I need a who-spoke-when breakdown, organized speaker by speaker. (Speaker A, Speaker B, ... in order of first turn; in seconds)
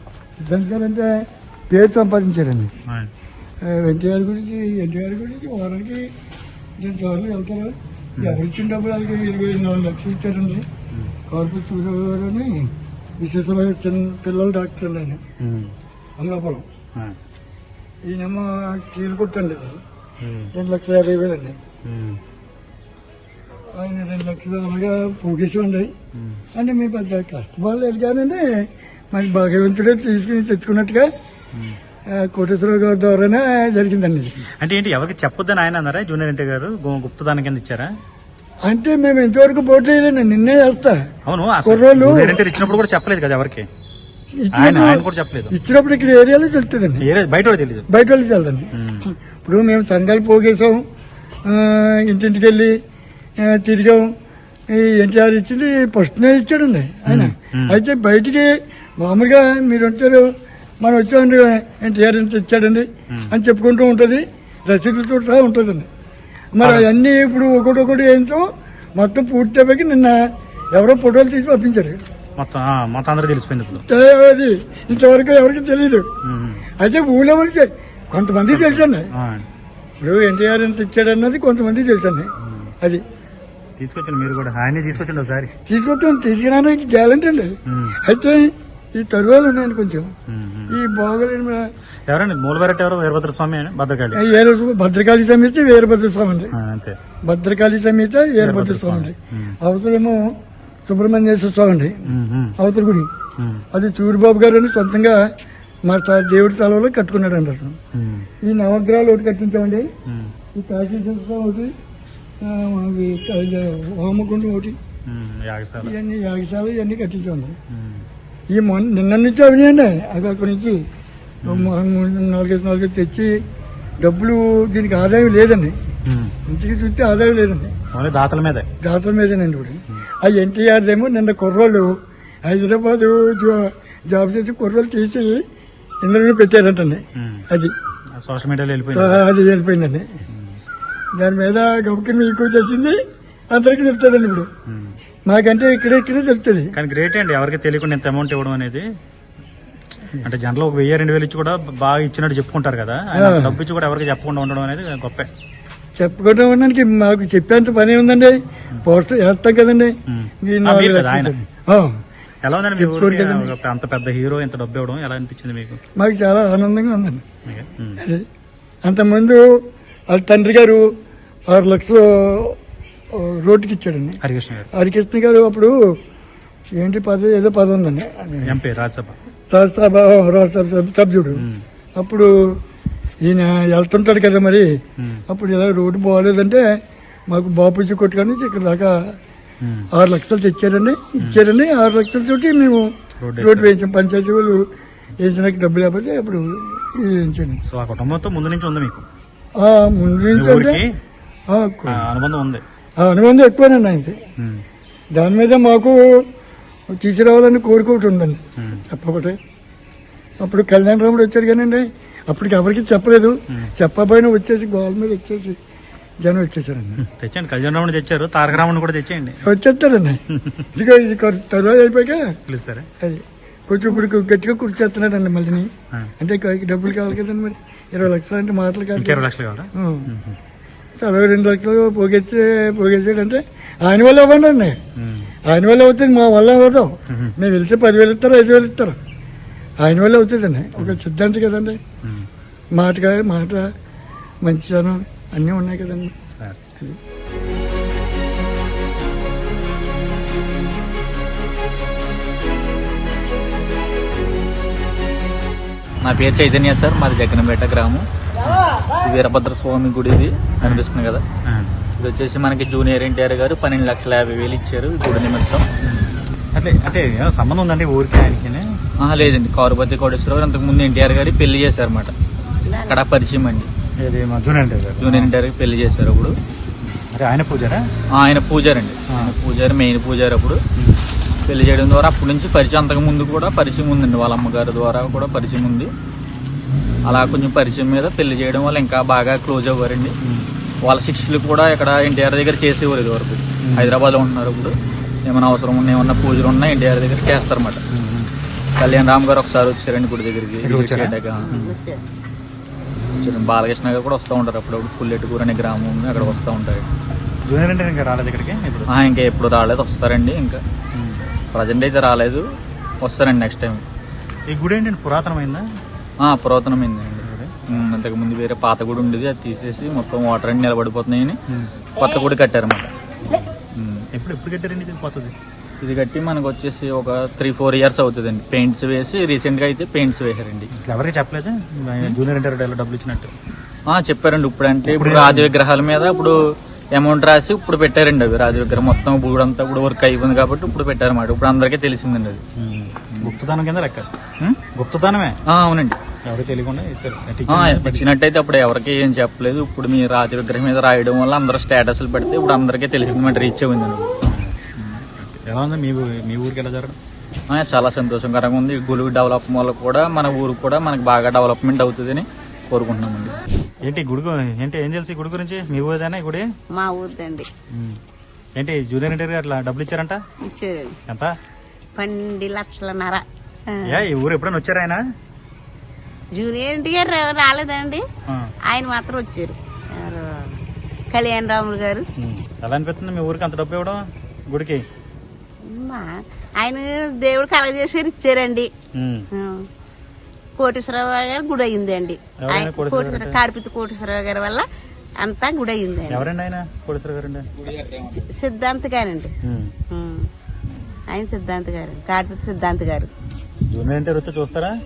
Speaker A: 0.4-2.7, 3.6-6.1, 6.8-10.7, 11.3-15.2, 16.2-16.7, 18.1-19.8, 20.5-21.6, 23.8-25.9, 26.6-31.1, 32.2-34.4, 38.7-41.0, 41.6-42.5, 44.4-47.1, 47.9-50.8, 51.5-52.8, 53.4-54.1, 54.7-60.3, 60.8-65.9, 66.5-68.5, 69.0-70.2, 70.7-72.0, 73.8-76.0, 76.8-79.1, 80.0-83.0, 85.7-90.1, 90.7-91.6, 94.1-96.5, 97.3-100.3, 100.9-102.0, 102.6-103.1, 103.7-105.2, 105.9-107.8, 108.4-109.9, 110.5-111.7, 112.4-114.8, 115.8-117.6, 118.5-120.8, 121.5-123.3, 124.0-125.8, 126.5-127.7, 128.8-131.9, 132.5-135.4, 136.0-137.7, 138.9-140.1, 141.2-143.0, 143.5-144.5, 145.3-146.7, 153.2-153.6, 156.0-161.9, 162.8-163.5, 166.0-167.2, 168.0-168.2, 168.8-169.4, 170.1-170.8, 171.5-172.6, 173.2-174.2, 174.7-175.7, 176.8-178.6, 179.5-181.4, 182.0-182.3, 183.2-184.7, 185.3-186.6, 187.3-188.9, 189.9-192.8, 193.4-194.6, 195.2-197.6, 199.6-200.8, 201.5-202.1, 203.0-204.2, 205.2-206.2, 206.9-209.4, 210.4-215.6, 216.2-217.0, 219.4-220.2, 220.8-222.3, 223.0-229.3, 229.8-230.1, 231.0-234.8, 235.5-239.0, 239.8-241.8, 242.8-243.7, 244.4-246.1
Speaker B: 15.4-15.7, 20.2-20.5, 21.9-22.2, 26.1-26.4, 34.6-37.9, 41.3-43.6, 44.5-45.6, 47.0-47.9, 48.8-49.1, 57.1-57.8, 66.6-67.0, 72.4-73.8, 76.2-76.6, 78.5-79.5, 82.4-82.7, 83.8-85.5, 87.7-88.0, 90.3-90.8, 92.1-94.3, 96.5-97.0, 98.4-99.6, 102.1-102.5, 103.4-103.7, 107.9-108.3, 110.1-110.3, 115.1-115.9, 117.7-118.0, 121.4-121.7, 126.1-126.3, 127.9-128.7, 137.2-137.4, 138.2-139.2, 140.3-140.6, 144.7-145.0, 146.7-148.8, 150.2-155.3, 160.1-161.3, 162.4-165.8, 167.5-168.0, 174.2-174.7, 178.5-179.2, 181.4-181.6, 189.6-189.9, 193.2-193.7, 197.7-199.1, 200.3-200.9, 201.9-202.6, 208.6-208.8, 217.1-219.4, 222.5-222.9, 229.0-230.4, 235.0-235.3, 237.1-237.3, 246.3-246.6, 261.4-261.7, 265.8-268.7, 274.0-275.3, 276.8-277.8, 280.8-281.0, 290.2-290.5, 293.6-293.9, 297.9-298.3, 300.6-301.7, 307.5-308.9, 310.9-311.2, 314.5-315.6, 317.2-317.8, 324.1-325.3, 330.8-333.3, 334.9-335.5, 342.6-344.1, 344.7-345.4, 346.2-348.1, 354.3-357.0, 363.8-366.4, 367.7-368.0, 368.6-370.2, 371.1-371.3, 373.9-375.0, 382.2-384.8, 389.0-389.3, 392.4-393.4, 396.1-397.5, 399.4-399.7, 403.6-404.7
Speaker C: 256.0-258.0, 259.0-261.2, 262.0-265.6, 269.0-272.1, 272.9-273.7, 275.0-276.3, 278.2-280.6, 281.5-285.9, 287.1-290.1, 290.8-294.7, 295.3-297.8, 298.8-301.5, 303.2-306.9, 308.9-310.6, 311.5-312.4, 313.0-313.8, 316.2-321.4, 322.0-322.9, 323.8-324.1, 325.8-330.7, 333.9-336.4, 336.9-342.4, 345.5-346.0, 347.5-354.1, 357.5-363.3
Speaker D: 272.6-273.1, 301.4-302.0, 366.8-367.5, 370.5-370.9, 371.9-374.1, 376.3-378.0, 378.7-380.6, 381.1-382.1, 385.7-386.1, 386.6-388.7, 389.3-389.7, 390.6-394.6, 395.2-396.3, 397.7-399.3, 399.9-400.3, 401.1-403.1